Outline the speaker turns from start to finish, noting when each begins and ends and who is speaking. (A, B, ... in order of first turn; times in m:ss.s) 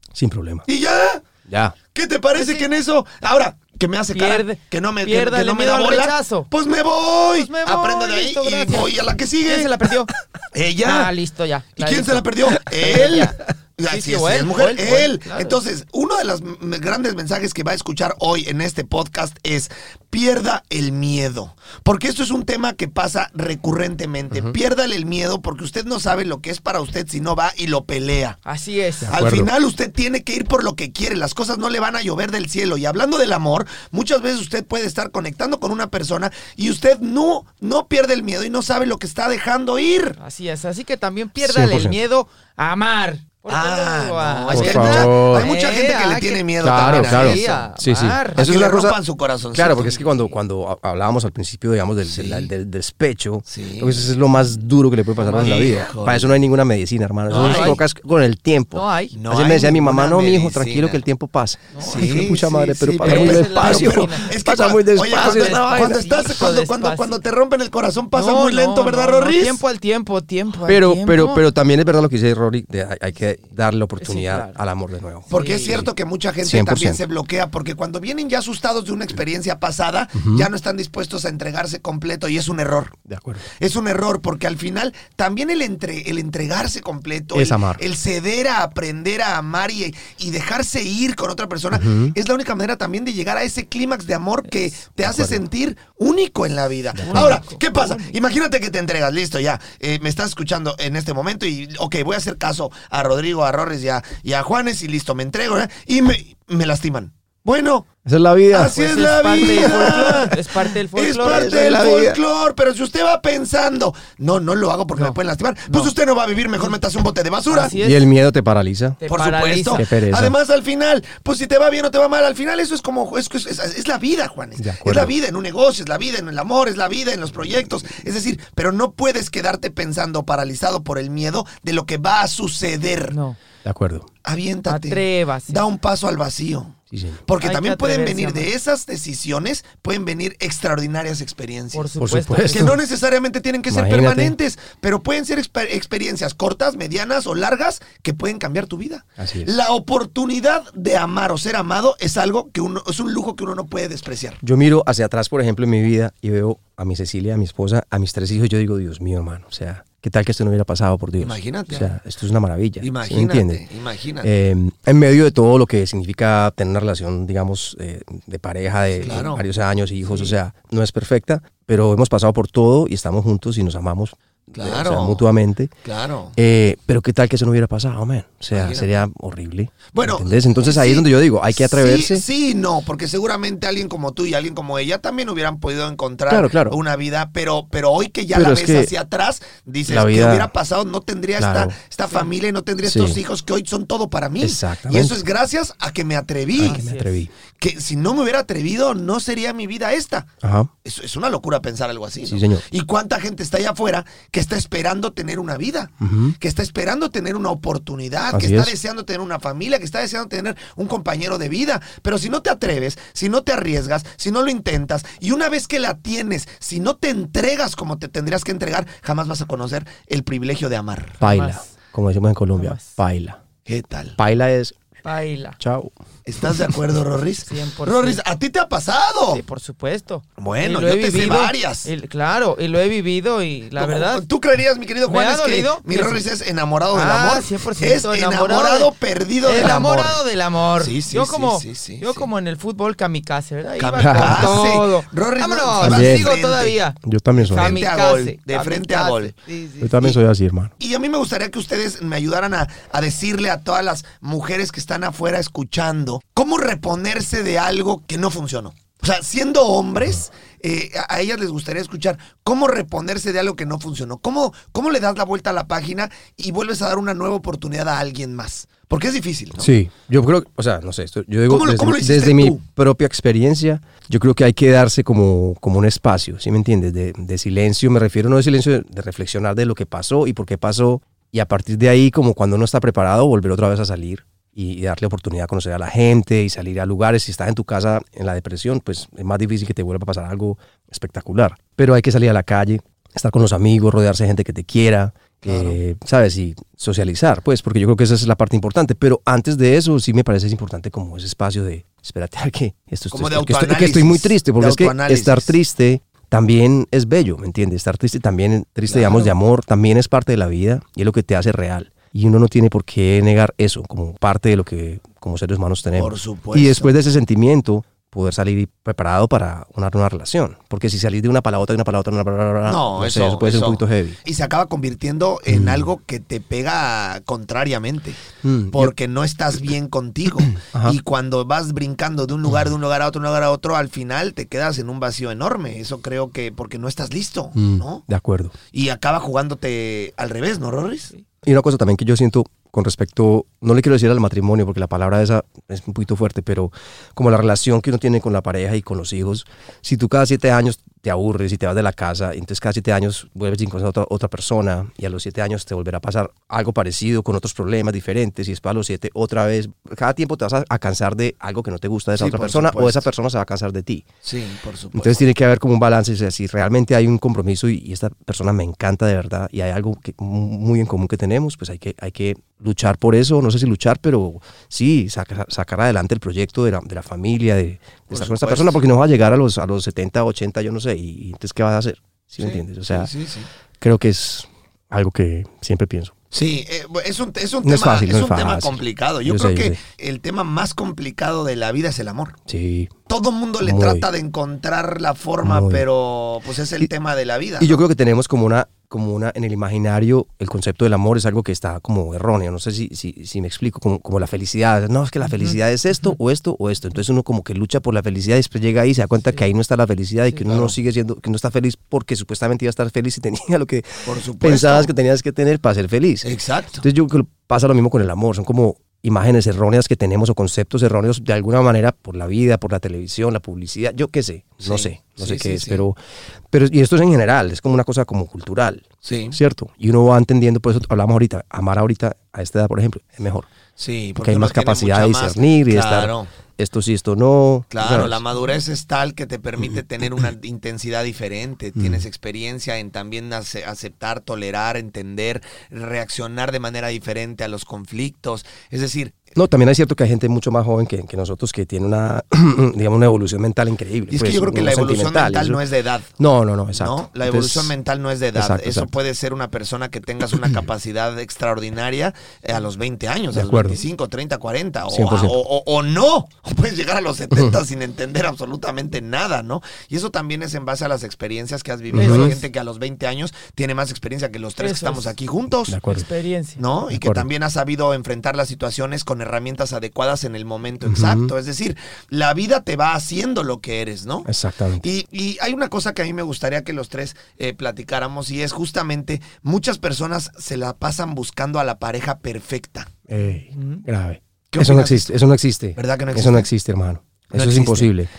0:00.1-0:00.6 A
0:00.6-0:01.2 B
0:01.5-0:01.7 A
0:01.9-0:09.7 B
0:02.3-0:02.7 C
0:04.1-0:06.5 C
0:07.3-0:10.1 C
0:10.5-0:11.1 B
0:10.8-0:15.6 C
0:11.8-0:28.4 B
0:28.4-0:29.1 C
0:29.0-0:29.5 A
0:29.1-0:40.2 B
0:40.2-0:48.4 C
0:41.4-0:42.0 A
0:43.5-0:47.7 B
0:44.5-0:45.5 A
0:46.6-0:49.0 A
0:48.4-0:50.0 B
0:49.5-1:06.0 A
0:52.1-0:52.5 B
0:53.4-0:54.1 B
0:55.2-0:55.7 C
0:55.3-0:56.3 B
0:57.3-0:57.8 C
0:57.3-0:57.8 B
0:58.7-0:59.2 C
0:59.1-1:01.0 B
1:01.7-1:02.4 C
1:01.8-1:09.6 B
1:03.0-1:04.3 C
1:05.0-1:07.2 C
1:08.1-1:11.4 C
1:10.6-1:15.9 A
1:14.0-1:14.6 C
1:15.3-1:15.8 C
1:15.3-1:23.0 B
1:16.4-1:17.0 A
1:20.1-1:20.5 A
1:23.0-1:23.4 A
1:23.5-1:47.9 B
1:27.3-1:27.8 A
1:31.7-1:32.1 A
1:35.0-1:35.4 A
1:37.0-1:37.4 A
1:37.0-1:38.1 C
1:48.0-1:48.8 A
1:48.5-1:57.7 B
1:48.6-1:51.6 C
1:49.4-1:50.4 A
1:51.2-1:52.2 A
1:55.7-1:55.9 C
1:56.5-1:56.8 C
1:57.5-1:58.0 C
1:57.8-1:59.0 A
1:59.0-1:59.9 C
1:59.1-2:13.2 B
1:59.7-2:00.3 A
2:04.6-2:05.1 A
2:13.1-2:13.4 C
2:13.6-2:14.1 A
2:14.2-2:21.9 B
2:14.7-2:15.6 C
2:16.9-2:17.2 A
2:17.4-2:18.5 C
2:21.7-2:22.8 C
2:22.0-2:22.8 A
2:22.4-2:34.4 B
2:23.7-2:24.3 A
2:29.2-2:29.5 A
2:34.4-2:43.6 A
2:41.2-2:41.9 B
2:42.8-2:44.3 B
2:44.2-2:55.7 A
2:49.0-2:49.4 B
2:50.1-2:50.3 C
2:54.5-2:55.2 B
2:55.8-2:56.4 B
2:56.4-3:02.2 A
2:58.5-2:58.9 B
2:59.9-3:16.8 B
3:06.3-3:06.8 A
3:08.3-3:08.9 A
3:09.9-3:10.5 A
3:11.4-3:11.7 A
3:12.8-3:13.2 A
3:14.4-3:15.2 A
3:16.6-3:17.3 A
3:16.6-3:17.2 C
3:17.6-3:20.3 B
3:20.4-3:20.7 A
3:20.8-3:41.2 B
3:22.2-3:22.6 A
3:26.0-3:26.4 A
3:28.3-3:28.7 A
3:41.2-3:43.4 A
3:41.2-3:41.7 C
3:42.6-3:43.0 C
3:43.6-3:44.2 B
3:44.2-3:44.8 A
3:45.0-3:45.6 C
3:45.6-3:46.7 A
3:46.2-3:49.4 B
3:47.4-3:48.2 C
3:49.3-3:54.2 C
3:50.4-3:51.9 B
3:53.8-4:00.2 B
3:55.1-3:56.2 C
3:56.9-3:58.9 C
3:59.4-4:10.0 C
4:00.8-4:02.3 B
4:03.8-4:06.8 B
4:04.0-4:04.6 A
4:05.8-4:06.3 A
4:07.0-4:07.8 A
4:07.4-4:09.3 B
4:09.8-4:10.7 A
4:10.8-4:29.7 B
4:29.6-5:24.2 A
4:31.5-4:32.6 B
4:55.4-4:55.8 B
5:03.1-5:05.6 B
5:08.9-5:09.3 B
5:15.9-5:16.9 B
5:22.6-5:28.2 B
5:25.5-5:25.8 A
5:28.4-5:28.9 A
5:28.7-5:38.0 B
5:30.5-5:31.0 A
5:37.6-5:38.5 A
5:38.7-5:41.1 B
5:41.4-6:04.0 A
6:02.2-6:03.1 B
6:04.2-6:05.2 B
6:04.9-6:23.1 A
6:18.1-6:18.8 B
6:22.4-6:23.5 B
6:23.8-6:26.1 A
6:26.3-6:32.4 B
6:27.6-6:29.8 A
6:32.5-6:32.9 A
6:33.1-6:37.8 B
6:33.6-6:34.1 A
6:35.4-6:35.8 A
6:37.6-6:56.2 A
6:50.5-6:50.8 B
6:54.0-6:54.9 B
6:56.2-6:56.8 B
6:56.8-7:06.0 A
7:04.6-7:05.8 B
7:06.5-7:13.5 A
7:09.0-7:09.4 B
7:13.8-7:16.3 B
7:14.2-7:18.2 A
7:17.7-7:29.2 B
7:29.3-7:35.6 A
7:34.1-7:36.1 B
7:36.2-7:37.7 A
7:36.7-7:55.8 B
7:38.3-7:38.9 A
7:43.3-7:43.8 A
7:44.9-7:45.4 A
7:47.3-7:47.6 A
7:51.9-7:52.4 A
7:51.9-7:52.4 C
7:54.6-7:55.1 C
7:55.7-7:56.1 A
7:55.9-7:56.6 C
7:56.6-8:04.3 B
7:56.9-7:57.3 A
8:00.8-8:01.3 A
8:04.2-8:04.8 A
8:04.8-8:12.9 B
8:13.1-8:18.1 A
8:13.5-8:13.8 C
8:14.5-8:15.2 B
8:15.7-8:16.5 B
8:17.3-8:17.9 B